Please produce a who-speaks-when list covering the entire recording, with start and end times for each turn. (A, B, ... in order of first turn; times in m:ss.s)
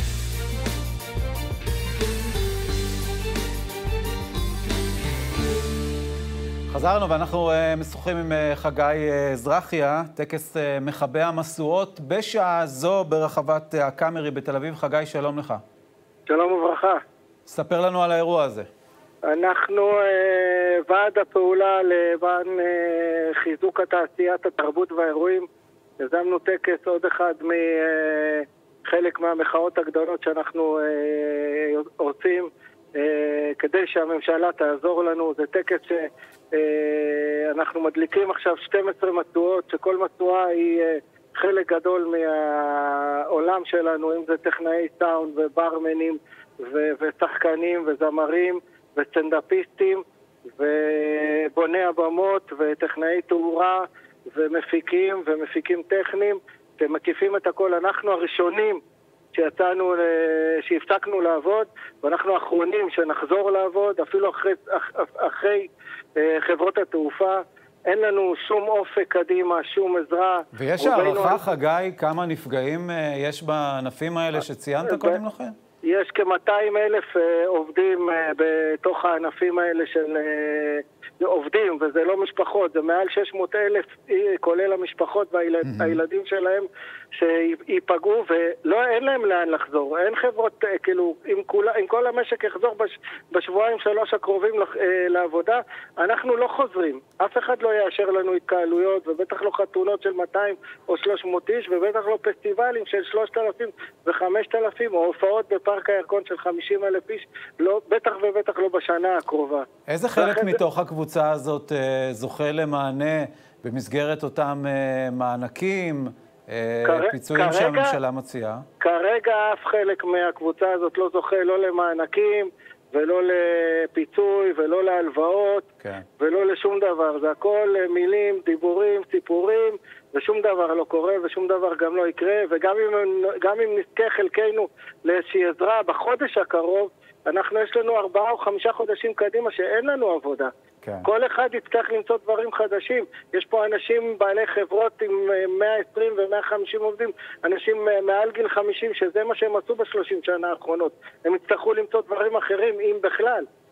0:06.7-0:15.6 A
0:16.3-0:17.0 B
0:17.5-0:18.7 A
0:19.3-0:25.5 B
0:26.0-0:58.8 B
0:59.3-1:11.4 B
1:10.5-1:15.6 A
1:14.8-1:15.2 B
1:15.8-1:49.6 B
1:25.6-1:26.0 A
1:49.9-1:58.6 A
1:50.2-1:50.6 B
1:56.8-1:57.9 B
1:58.8-2:05.7 B
2:05.8-2:06.0 A
2:06.2-2:20.5 B
2:20.8-2:21.1 A
2:21.0-2:33.5 B